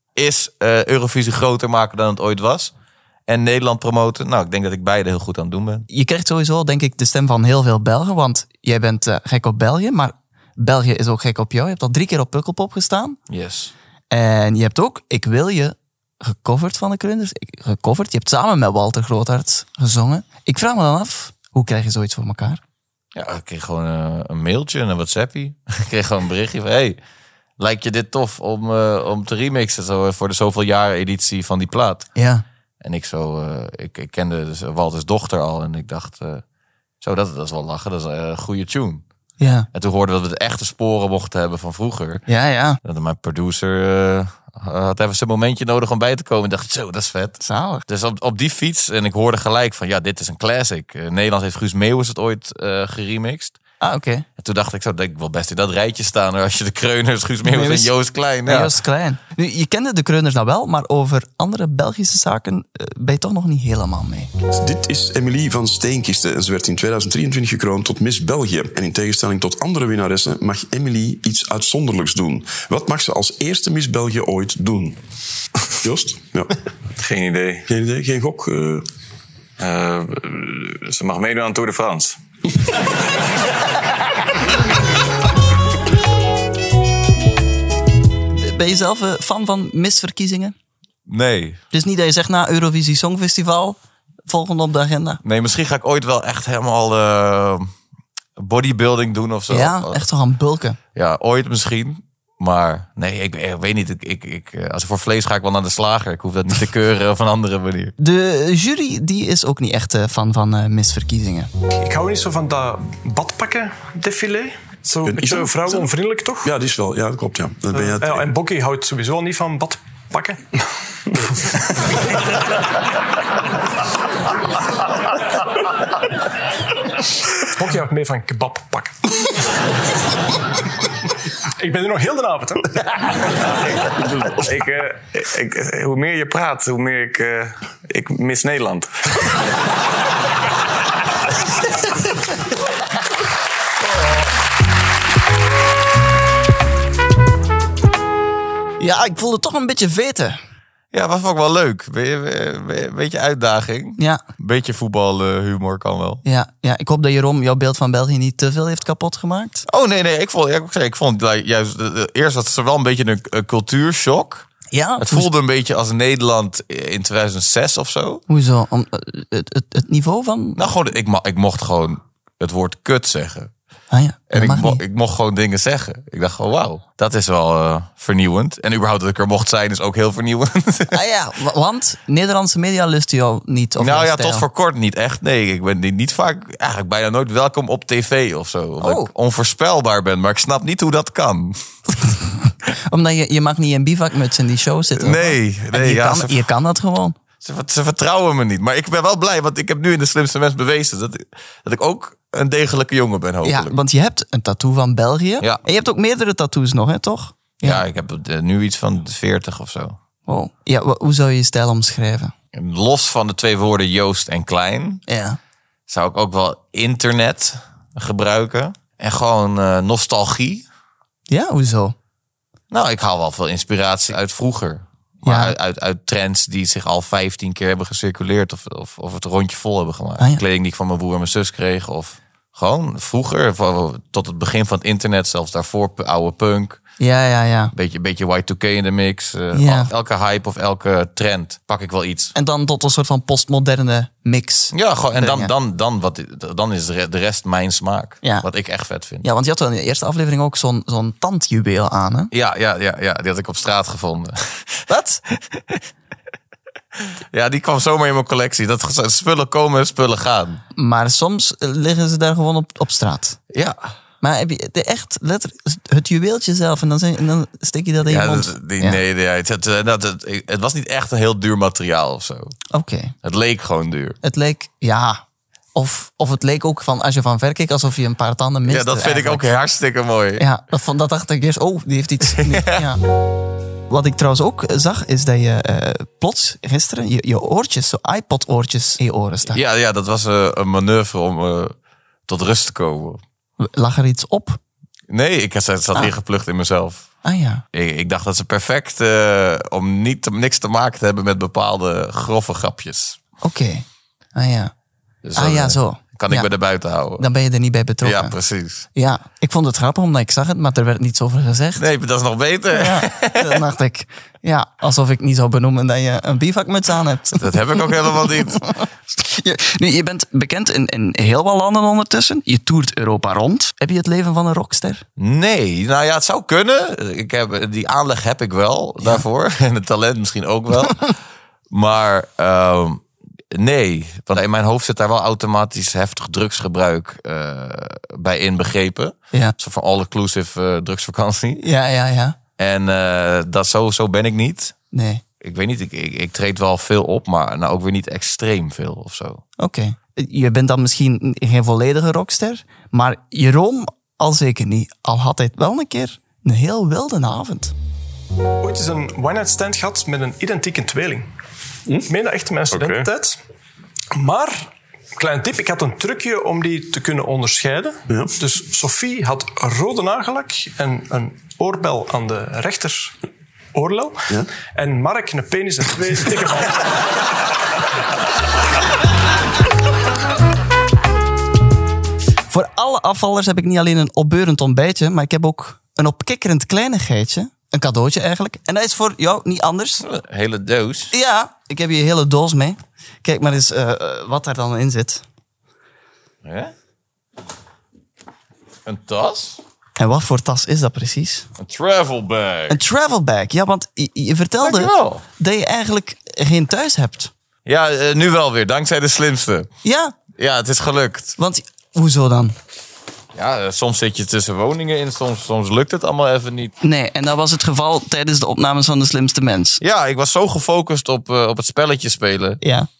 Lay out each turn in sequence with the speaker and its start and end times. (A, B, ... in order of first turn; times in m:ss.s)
0:00.2-0:02.7 A
0:03.3-0:05.9 A
0:05.9-0:13.2 B
0:13.3-0:13.7 A
0:14.1-0:22.6 B
0:23.1-0:27.0 A
0:27.6-0:32.1 A
0:32.1-0:32.4 B
0:32.8-0:36.4 A
0:37.0-0:39.0 A
0:39.4-0:39.7 B
0:39.7-0:42.2 A
0:42.3-0:42.8 B
0:42.8-0:53.6 A
0:47.4-0:47.8 B
0:53.8-0:54.2 B
0:54.4-0:58.7 A
0:57.4-1:04.3 B
1:04.5-1:15.0 C
1:15.8-1:16.6 C
1:17.0-1:17.6 D
1:17.7-1:18.8 C
1:19.6-1:22.2 D
1:28.3-1:30.5 B
1:31.0-1:31.6 A
1:31.7-1:33.8 B
1:34.3-1:35.2 B
1:35.2-1:37.7 A
1:38.4-1:40.0 A
1:39.5-1:40.8 B
1:40.9-1:47.9 A
1:48.0-1:51.5 B
1:51.8-1:56.5 E
1:55.0-1:55.9 C
1:56.4-1:58.3 C
1:57.7-2:00.6 E
2:01.4-2:02.1 E
2:07.4-2:09.4 E
2:11.6-2:13.5 E
2:13.5-2:18.9 D
2:28.8-2:30.4 B
2:30.9-2:36.2 A
2:36.2-2:39.6 B
2:39.6-2:48.2 A
2:44.7-2:45.3 B
2:48.3-2:50.6 B
2:50.6-2:53.5 A
2:53.9-2:54.8 B
2:54.3-3:01.0 A
3:00.9-3:04.5 B
3:03.8-3:11.6 A
3:08.8-3:09.1 B
3:12.9-3:17.2 B
3:14.9-3:16.4 A
3:17.4-3:23.8 A
3:23.4-3:27.8 B
3:27.6-3:30.0 A
3:30.2-3:32.3 B
3:32.5-3:35.0 A
3:35.1-3:35.4 B
3:35.9-3:40.6 A
3:41.3-3:41.9 B
3:42.7-3:56.8 A
3:45.2-3:45.5 B
3:57.0-3:57.7 B
3:57.7-4:02.3 A
3:59.5-3:59.9 B
4:02.3-4:05.5 B
4:04.7-4:09.3 A
4:08.2-4:08.5 B
4:09.2-4:12.3 B
4:12.3-4:15.8 A
4:14.9-4:15.2 B
4:17.0-4:20.6 A
4:20.8-4:23.4 B
4:24.2-4:29.0 B
4:28.0-4:32.6 A
4:32.7-4:33.1 B
4:33.2-4:34.2 A
4:34.2-4:35.2 B
4:35.7-4:39.5 B
4:38.6-4:40.4 A
4:40.4-4:43.0 B
4:42.3-4:42.7 A
4:43.9-4:49.6 B
4:49.5-4:51.7 A
4:52.3-4:53.2 A
4:53.6-4:54.6 B
4:55.1-4:57.1 A
4:57.2-4:57.6 B
4:57.7-5:03.2 A
5:03.4-5:04.7 B
5:05.2-5:07.2 A
5:05.4-5:06.5 B
5:07.2-5:08.4 B
5:08.0-5:08.9 A
5:08.9-5:11.9 B
5:11.8-5:13.6 A
5:12.7-5:25.0 B
5:17.4-5:18.6 A
5:25.2-5:31.1 A
5:31.7-5:41.6 A
5:41.6-5:42.4 B
5:42.6-5:44.7 A
5:44.9-5:45.2 B
5:45.4-5:49.4 A
5:49.6-5:57.7 B
5:58.6-6:01.3 E
6:02.0-6:03.4 E
6:04.1-6:13.1 E
6:13.7-6:16.8 E
6:22.5-6:30.0 B
6:30.0-6:31.1 A
6:31.1-6:35.2 B
6:36.4-6:36.7 A
6:38.8-6:39.6 A
6:40.0-6:41.4 B
6:41.6-6:42.8 A
6:42.7-6:47.3 B
6:44.6-6:45.2 A
6:47.6-6:49.7 A
6:49.8-6:50.2 B
6:50.4-6:51.4 A
6:51.4-6:52.5 B
6:53.3-6:56.7 A
6:56.8-6:59.8 B
6:59.8-7:02.6 A
7:02.6-7:02.9 B